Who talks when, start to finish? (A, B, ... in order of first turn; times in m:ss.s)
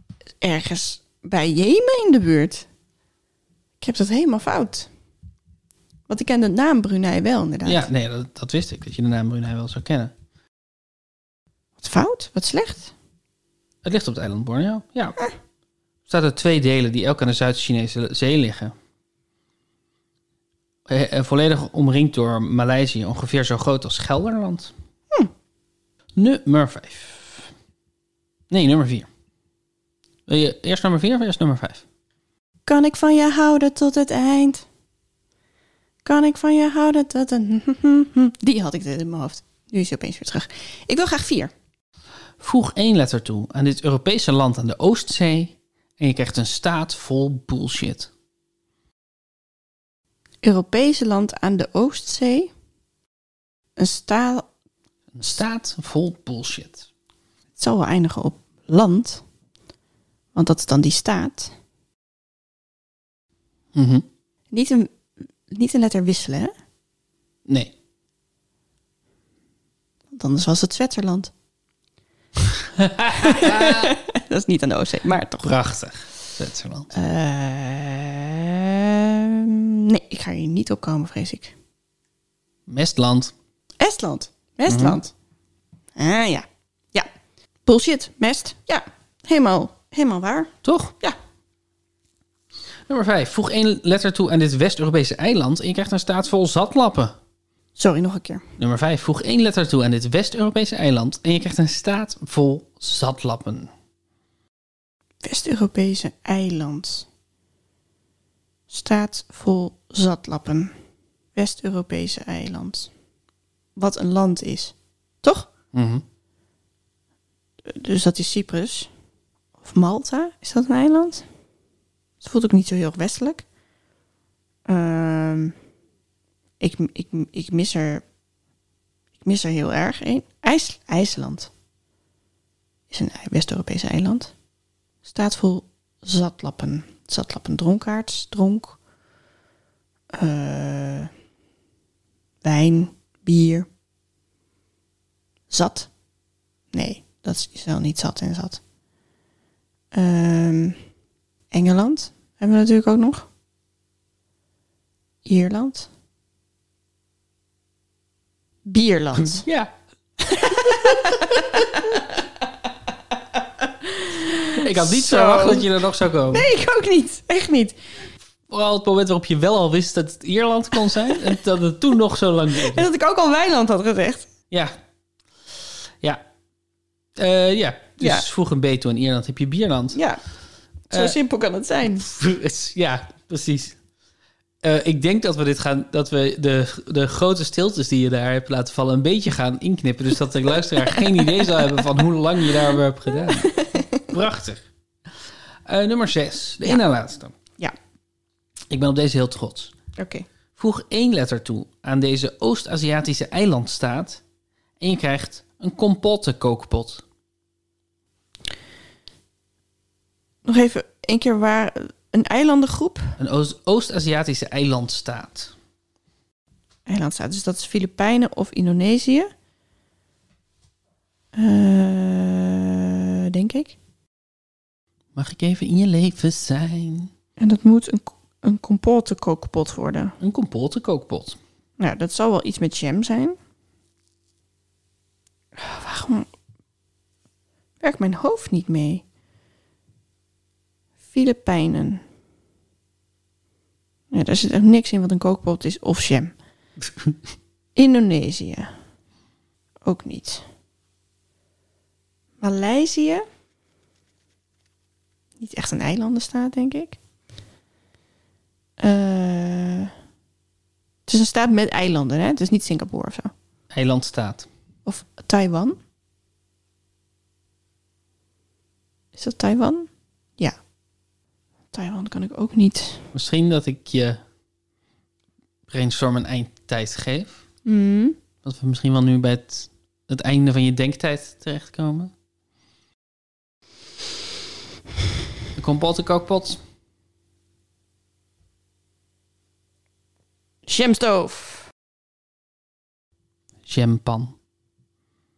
0:00.4-0:02.7 A
0:03.8-0:04.9 A
0:06.1-0:07.9 A
0:07.6-0:10.1 B
0:11.8-0:12.9 A
0:13.8-0:15.2 B
0:16.1-0:18.7 B
0:20.9-0:24.7 B
0:26.2-0:27.5 B
0:28.5-0:29.1 B
0:30.3-0:31.8 B
0:32.7-0:34.7 A
0:36.0-0:41.5 A
0:42.4-0:48.1 B
0:50.4-0:52.5 A
0:53.8-0:54.5 A
0:55.1-0:56.9 B
0:57.6-0:59.2 A
1:00.4-1:01.5 A
1:03.7-1:04.0 B
1:04.5-1:06.5 A
1:07.5-1:07.7 B
1:10.1-1:11.3 A
1:12.5-1:13.9 B
1:13.1-1:15.5 A
1:15.4-1:16.9 B
1:16.9-1:21.5 A
1:22.7-1:23.3 B
1:23.8-1:25.1 A
1:24.7-1:25.0 B
1:26.0-1:27.1 A
1:27.7-1:31.2 A
1:30.6-1:30.9 B
1:32.9-1:37.2 B
1:37.8-1:38.4 A
1:38.6-1:43.7 B
1:45.2-1:47.1 A
1:48.7-1:50.7 A
1:51.4-1:52.9 A
1:53.8-1:55.5 A
1:55.7-1:56.0 B
1:57.7-1:58.9 A
1:59.6-2:01.2 A
2:02.2-2:03.4 A
2:04.7-2:05.6 A
2:06.6-2:08.0 A
2:09.2-2:11.5 A
2:12.9-2:14.3 A
2:15.0-2:18.8 A
2:20.1-2:21.1 A
2:22.4-2:23.7 A
2:25.5-2:25.9 A
2:26.7-2:28.6 A
2:29.9-2:30.8 A
2:31.5-2:33.3 A
2:35.2-2:35.9 A
2:38.7-2:39.5 A
2:39.2-2:39.7 B
2:40.2-2:42.1 A
2:43.6-2:45.7 A
2:44.6-2:46.5 B
2:46.3-2:47.8 A
2:48.5-2:52.9 B
2:51.1-2:51.3 A
2:52.5-2:54.3 A
2:57.2-3:00.0 B
2:58.0-2:58.3 A
2:59.9-3:00.2 A
3:00.9-3:02.1 A
3:02.0-3:03.8 B
3:04.6-3:14.6 B
3:11.0-3:11.5 A
3:13.3-3:14.1 A
3:15.7-3:17.3 B
3:18.7-3:19.7 B
3:20.0-3:20.3 A
3:20.6-3:24.2 B
3:24.8-3:27.0 B
3:30.5-3:33.2 A
3:33.2-3:35.5 B
3:36.9-3:39.3 A
3:41.4-3:43.8 A
3:45.2-3:47.1 B
3:47.4-3:50.2 A
3:50.2-3:51.4 B
3:51.8-3:53.4 A
3:55.6-3:56.3 A
3:57.8-3:59.0 A
4:01.1-4:02.0 A
4:04.1-4:06.4 A
4:07.8-4:08.7 A
4:09.8-4:10.4 A
4:12.4-4:13.2 A
4:15.4-4:17.0 A
4:18.8-4:19.9 A
4:21.1-4:23.3 A
4:23.7-4:24.5 B
4:24.9-4:25.8 A
4:29.2-4:30.6 A
4:31.7-4:33.1 A
4:33.1-4:34.2 B
4:35.7-4:37.4 B
4:37.6-4:38.2 A
4:38.4-4:42.1 B
4:45.6-4:46.6 B
4:50.7-4:51.7 A
4:53.7-4:54.4 B